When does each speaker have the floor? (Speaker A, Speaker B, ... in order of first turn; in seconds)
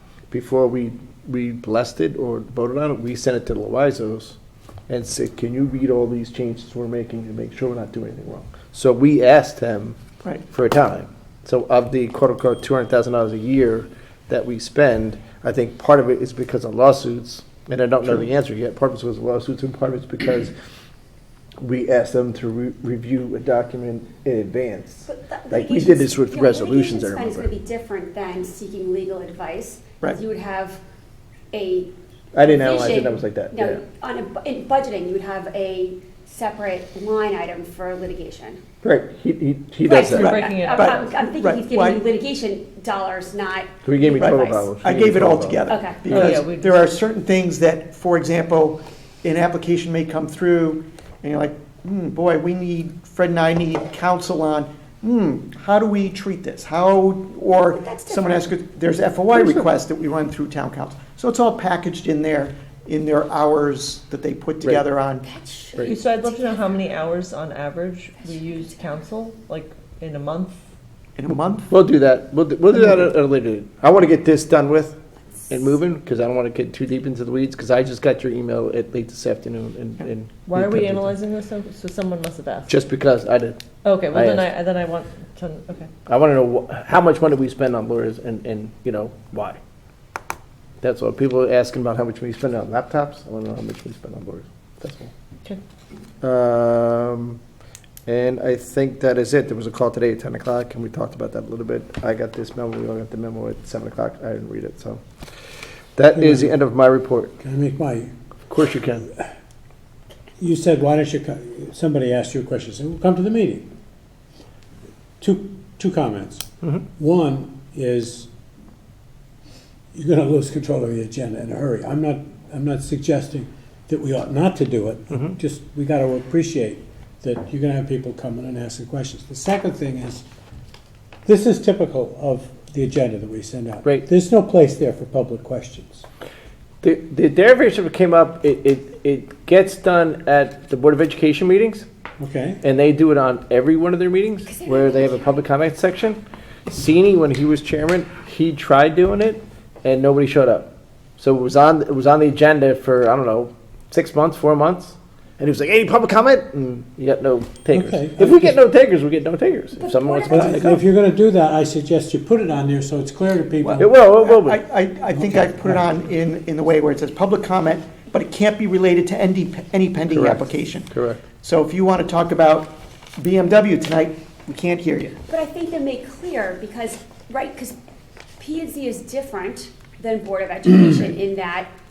Speaker A: 0.3-4.4, 4.9-10.0, 10.5-20.5, 21.6-27.5, 32.3-33.8, 38.8-40.4, 43.8-45.6, 59.3-59.6, 71.7-75.0, 75.5-81.1, 82.7-83.6, 84.1-84.5, 86.0-89.6, 90.8-95.1, 96.2-97.4, 98.0-105.0, 106.0-107.3, 108.5-109.1, 136.8-141.8, 142.6-160.8, 163.8-164.6, 170.1-171.2
Speaker B: 25.1-30.8, 31.5-31.9, 32.4-38.6, 39.8-44.7, 45.7-46.3, 57.7-58.5, 65.2-66.8, 68.2-68.9, 144.5-145.4, 159.8-160.6, 175.3-177.8, 178.4-181.7
Speaker C: 40.0-42.0, 44.2-65.2, 71.2-71.7, 163.6-175.1
Speaker D: 40.1-40.9, 46.1-46.8, 65.8-70.6, 80.5-82.7, 83.8-85.9
Speaker E: 106.1-106.5, 107.4-108.1, 110.4-113.7, 115.2-118.3, 119.9-130.2, 131.2-136.0, 142.2-142.6, 157.7-158.6, 160.2-163.9